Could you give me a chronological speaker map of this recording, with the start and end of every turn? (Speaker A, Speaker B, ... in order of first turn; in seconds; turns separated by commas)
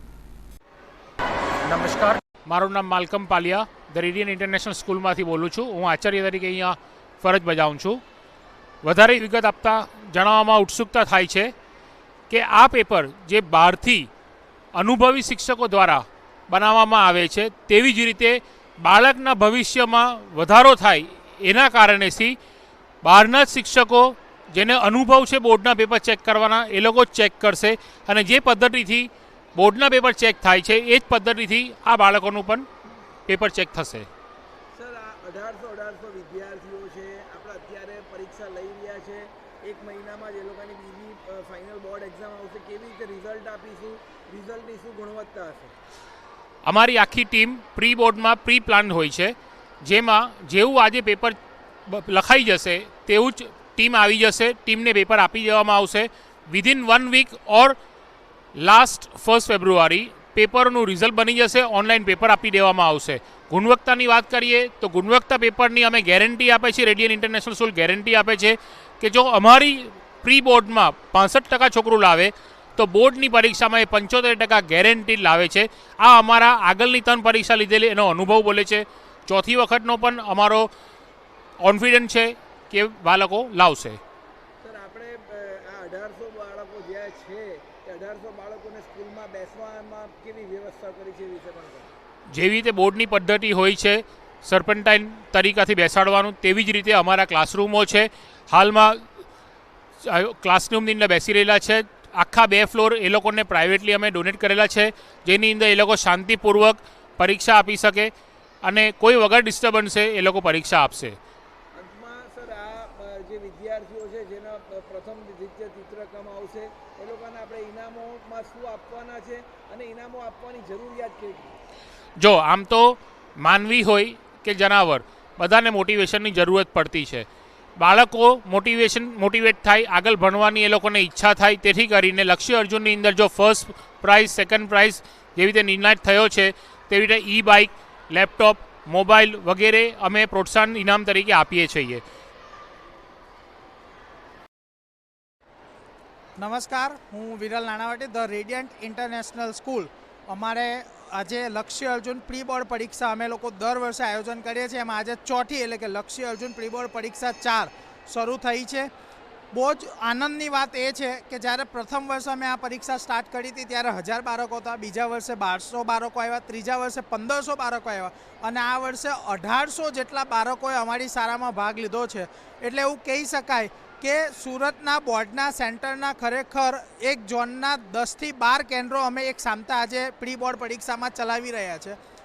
Speaker A: 1.6-8.0, Speaker A: 8.8-11.5, Speaker A: 12.3-14.1, Speaker A: 14.8-22.4, Speaker A: 23.0-32.7, Speaker A: 33.3-34.1, Speaker B: 34.7-45.7, Speaker A: 46.6-51.4, Speaker A: 51.9-57.8, Speaker A: 58.6-80.7, Speaker A: 81.6-84.0, Speaker B: 84.6-91.9, Speaker A: 92.3-99.0, Speaker A: 100.0-108.1, Speaker A: 108.6-111.2, Speaker B: 111.7-121.5, Speaker A: 122.2-127.3, Speaker A: 127.8-142.0, Speaker C: 146.4-158.9, Speaker C: 159.5-182.0